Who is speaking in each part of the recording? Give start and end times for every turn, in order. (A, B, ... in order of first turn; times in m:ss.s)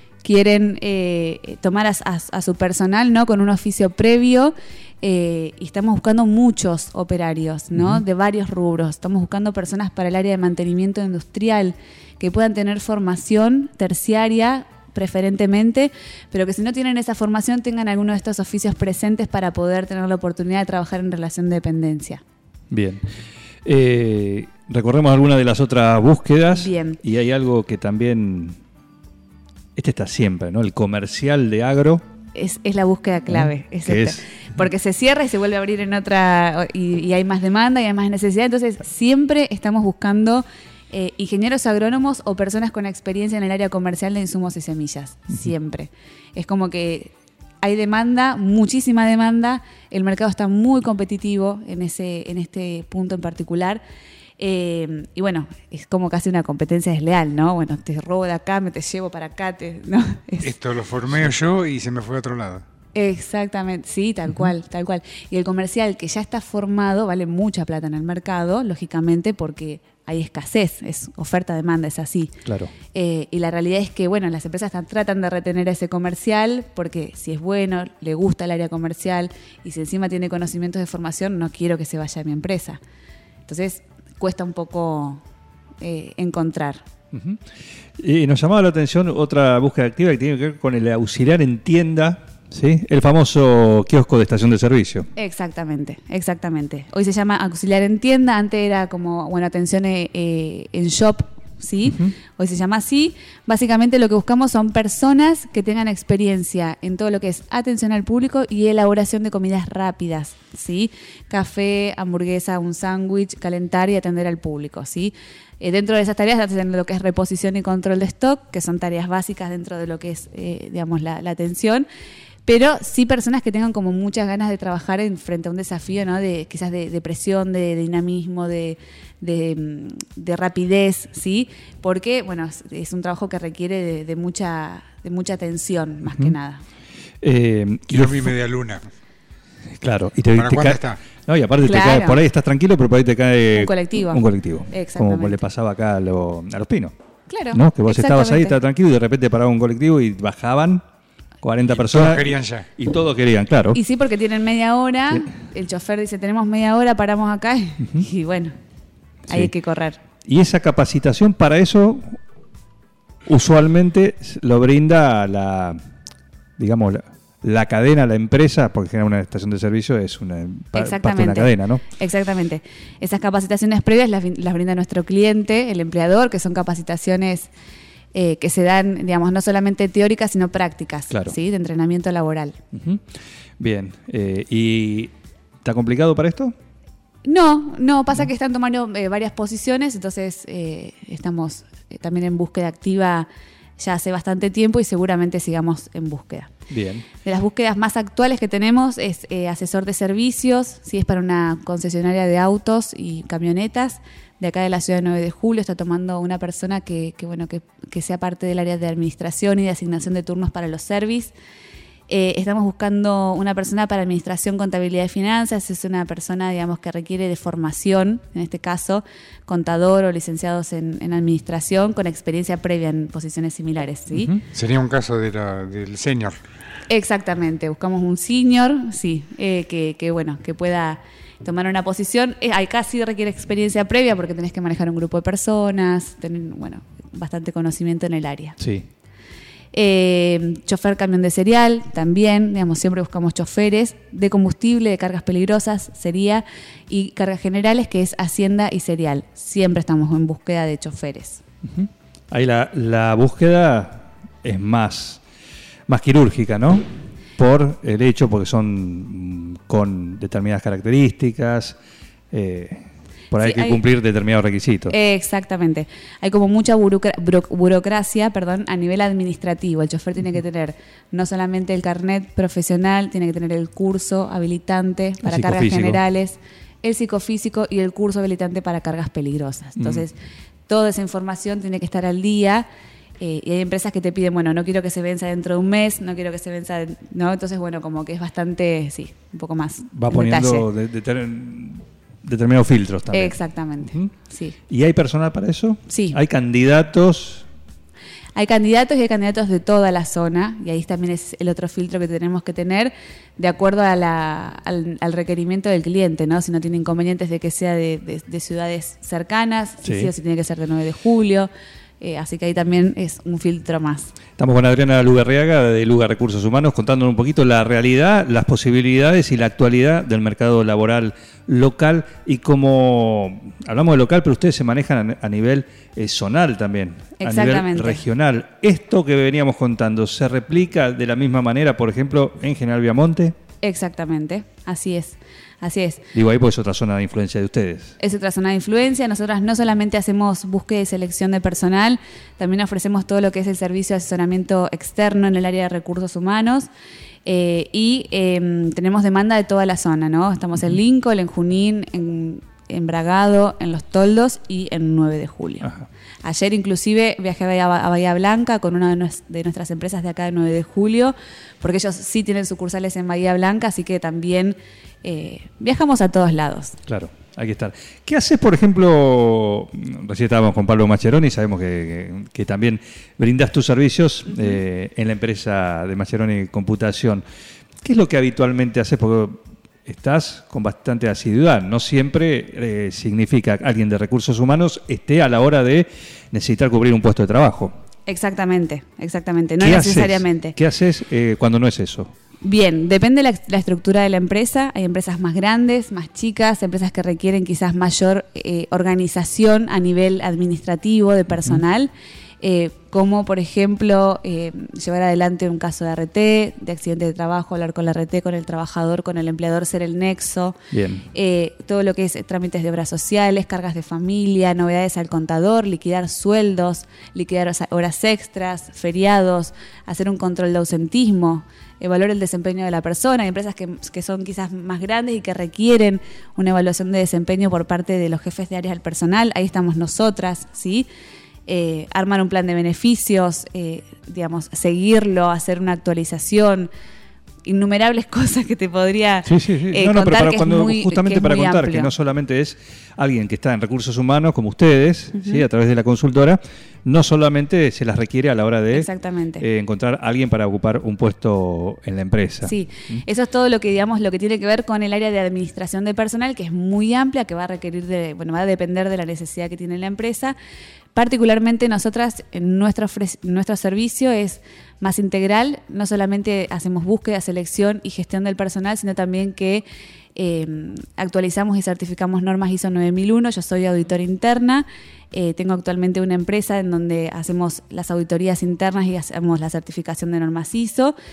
0:00.2-0:22.2 A
0:07.7-0:08.0 B
0:22.7-0:23.1 B
0:23.6-0:28.6 B
0:26.5-0:27.0 A
0:29.8-0:32.0 B
0:32.3-0:53.8 A
0:33.3-0:34.2 B
0:54.4-1:00.5 A
1:00.4-1:02.6 C
1:02.9-1:12.3 A
1:12.4-1:12.7 B
1:12.9-1:22.8 A
1:23.5-1:25.2 A
1:25.8-1:26.8 A
1:27.1-1:27.4 B
1:28.0-1:35.1 B
1:35.2-2:01.9 A
1:41.8-1:42.1 B
2:02.4-2:16.6 A
2:16.0-2:16.3 B
2:17.2-2:18.3 B
2:17.9-2:18.8 C
2:19.7-2:26.9 B
2:20.3-2:21.0 C
2:21.6-2:22.2 A
2:23.5-2:25.4 A
2:27.3-2:28.6 A
2:27.5-2:30.8 B
2:31.4-2:33.8 B
2:31.7-2:32.6 C
2:33.7-2:38.6 A
2:39.3-2:40.0 A
2:40.2-2:42.2 B
2:43.2-2:45.8 B
2:46.6-2:51.8 B
2:50.7-2:57.5 A
2:58.1-3:02.6 A
3:01.1-3:01.3 B
3:02.7-3:06.5 B
3:07.2-3:13.3 A
3:13.8-3:16.5 A
3:16.7-3:17.0 B
3:17.2-3:31.3 A
3:32.1-3:44.3 A
3:44.1-3:44.4 B
3:44.5-3:46.4 C
3:46.9-3:58.6 A
3:58.6-3:58.8 B
3:59.7-4:11.4 A
4:11.6-4:15.2 B
4:15.9-4:16.8 B
4:17.4-4:21.8 B
4:22.3-4:24.9 B
4:23.4-4:23.8 A
4:24.9-4:40.1 A
4:35.2-4:36.0 B
4:39.8-4:40.0 B
4:40.7-4:42.7 A
4:43.2-4:50.7 A
4:49.9-4:54.1 B
4:53.1-4:54.6 A
4:54.7-4:57.4 B
4:55.9-4:56.2 A
4:58.3-5:11.5 A
5:09.8-5:10.1 B
5:12.0-5:14.1 A
5:14.4-5:33.4 B
5:27.2-5:28.0 A
5:33.6-5:36.0 A
5:36.1-5:37.9 B
5:38.0-5:46.7 A
5:47.2-5:55.7 A
5:56.2-6:06.8 A
6:06.9-6:17.2 B
6:17.8-6:27.7 B
6:28.1-6:30.6 A
6:29.6-6:32.1 B
6:32.4-6:50.6 A
6:50.7-6:51.0 B
6:51.1-7:10.9 A
7:11.5-7:16.7 A
7:17.4-7:21.9 A
7:19.2-7:28.9 B
7:25.1-7:25.4 A
7:28.7-7:29.4 A
7:29.4-7:33.0 B
7:32.4-7:40.4 A
7:40.9-8:00.9 A